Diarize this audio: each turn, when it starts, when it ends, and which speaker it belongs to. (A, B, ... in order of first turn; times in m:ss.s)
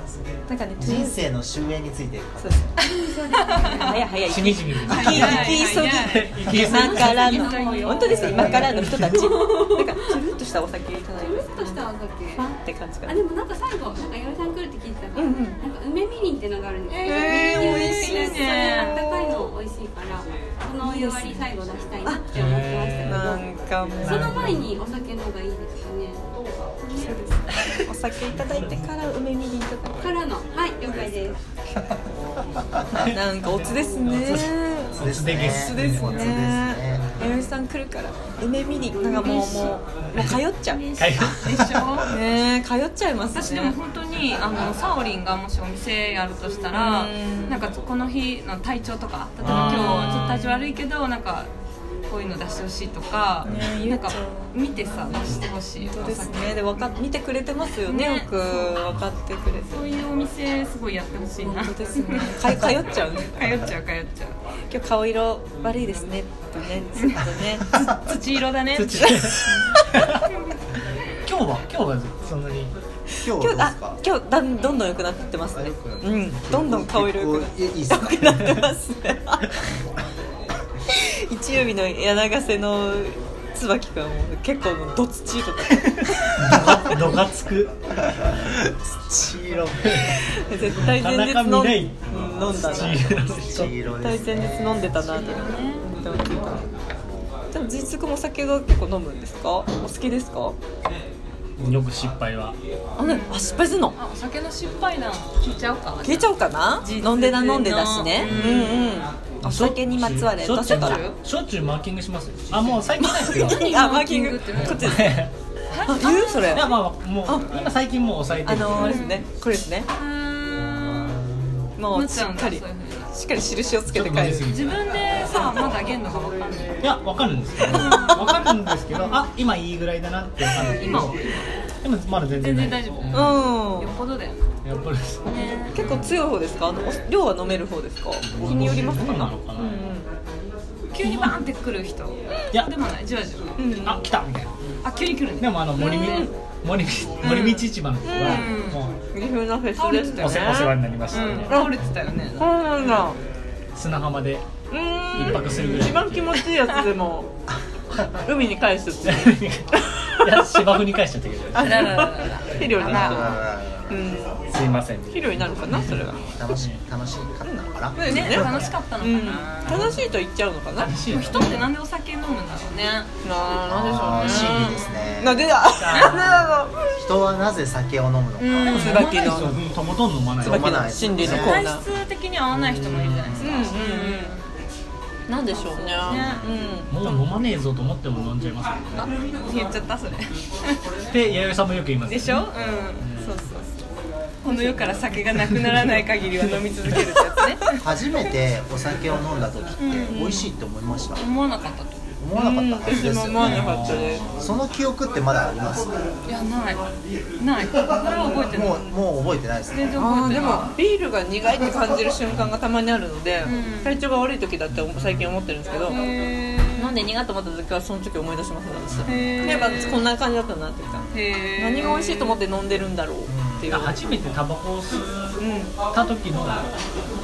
0:00.5-0:01.2 A
0:00.8-0:02.6 B
0:02.4-0:13.2 A
0:02.8-0:03.9 C
0:03.4-0:04.0 D
0:04.3-0:09.2 E
0:04.8-0:09.3 C
0:06.6-0:08.7 D
0:09.2-0:10.0 D
0:11.2-0:12.2 D
0:11.5-0:12.4 C
0:13.1-0:23.4 D
0:15.1-0:15.6 A
0:16.9-0:19.5 A
0:17.2-0:19.0 C
0:20.8-0:21.5 A
0:22.3-0:23.4 E
0:23.0-0:24.6 A
0:24.0-0:27.1 D
0:24.0-0:24.8 E
0:26.9-0:30.2 A
0:28.3-0:28.9 E
0:30.0-0:31.4 D
0:32.9-0:36.2 E
0:33.0-0:40.8 A
0:35.0-0:37.3 B
0:39.0-0:39.8 C
0:40.7-0:42.1 C
0:41.0-0:42.0 E
0:42.1-0:43.8 A
0:43.3-0:51.5 C
0:46.7-0:47.7 A
0:49.4-0:50.4 A
0:49.4-0:50.5 E
0:52.1-0:56.9 C
0:53.4-0:59.8 A
0:55.2-0:55.5 E
0:57.8-0:58.8 C
0:59.6-1:04.4 C
1:01.4-1:03.7 A
1:02.4-1:02.8 E
1:04.7-1:07.8 A
1:07.0-1:10.6 C
1:08.7-1:10.2 E
1:09.0-1:10.1 A
1:11.2-1:12.7 E
1:13.2-1:14.0 B
1:13.3-1:19.5 A
1:15.5-1:18.4 B
1:20.9-1:26.4 A
1:26.2-1:27.7 E
1:28.1-1:30.0 B
1:29.8-1:30.2 E
1:30.1-1:33.3 A
1:30.8-1:33.7 E
1:32.3-1:35.0 B
1:34.0-1:36.6 A
1:35.1-1:35.9 C
1:36.0-1:37.3 B
1:37.5-1:40.6 A
1:41.6-1:42.6 E
1:43.0-1:44.0 A
1:43.0-1:49.1 C
1:46.0-1:51.1 A
1:48.2-1:48.6 E
1:49.4-1:53.7 E
1:50.6-1:51.2 C
1:52.7-1:55.1 C
1:53.0-1:55.3 A
1:54.5-1:55.3 E
1:55.7-1:56.8 C
1:55.8-1:57.5 A
1:56.5-1:59.1 E
1:58.4-1:59.9 A
1:58.8-1:59.2 C
1:59.9-2:01.2 C
2:01.8-2:04.5 A
2:01.9-2:03.1 C
2:03.9-2:04.8 E
2:04.4-2:06.8 C
2:06.8-2:11.2 E
2:07.6-2:09.3 C
2:10.5-2:11.5 C
2:11.8-2:13.4 E
2:12.3-2:14.4 C
2:13.1-2:13.9 A
2:14.6-2:16.2 E
2:15.2-2:15.7 C
2:15.7-2:20.1 A
2:18.2-2:19.9 E
2:20.9-2:23.6 C
2:21.0-2:21.4 E
2:23.6-2:24.0 A
2:23.8-2:24.5 E
2:24.8-2:25.6 C
2:25.4-2:28.9 E
2:25.8-2:26.3 A
2:27.2-2:28.6 A
2:27.2-2:27.6 C
2:28.2-2:28.9 C
2:29.1-2:30.8 A
2:29.8-2:30.6 C
2:30.2-2:31.7 E
2:31.1-2:33.0 C
2:31.4-2:31.8 A
2:32.4-2:33.2 A
2:33.7-2:34.4 E
2:34.7-2:37.3 A
2:35.1-2:36.4 E
2:38.2-2:39.4 A
2:39.1-2:42.1 E
2:40.0-2:40.7 A
2:41.5-2:44.4 A
2:41.6-2:43.4 C
2:42.8-2:44.0 B
2:44.5-2:46.0 E
2:45.1-2:46.2 A
2:46.3-2:48.7 B
2:47.4-2:51.0 A
2:47.9-2:50.0 C
2:50.8-2:51.7 E
2:51.1-2:53.1 C
2:53.2-2:56.8 A
2:53.6-2:55.6 B
2:54.0-2:55.2 C
2:55.7-2:56.5 E
2:55.9-2:56.2 C
2:57.0-2:58.8 B
2:58.4-2:59.6 C
2:58.6-2:59.6 A
2:58.6-3:00.9 E
3:00.4-3:01.6 B
3:00.4-3:01.8 A
3:01.2-3:04.5 C
3:02.5-3:03.3 E
3:03.1-3:03.7 B
3:03.4-3:04.4 A
3:05.3-3:07.4 A
3:05.7-3:06.5 C
3:06.0-3:06.6 B
3:06.9-3:09.2 E
3:09.3-3:10.8 C
3:11.1-3:13.4 E
3:12.0-3:13.5 C
3:13.2-3:13.7 A
3:14.4-3:17.8 C
3:14.4-3:15.0 A
3:15.4-3:17.3 E
3:17.8-3:21.2 B
3:19.8-3:20.5 C
3:21.2-3:22.1 C
3:22.2-3:26.2 B
3:22.4-3:24.4 A
3:22.8-3:23.2 C
3:23.4-3:24.4 E
3:26.2-3:26.8 C
3:27.4-3:28.9 C
3:28.1-3:28.9 A
3:28.4-3:30.6 B
3:29.7-3:30.7 C
3:29.9-3:36.0 A
3:33.4-3:34.0 C
3:35.9-3:36.9 C
3:36.8-3:44.0 A
3:39.1-3:40.0 C
3:41.1-3:42.4 C
3:43.2-3:43.7 B
3:43.7-3:46.7 E
3:45.4-3:45.7 A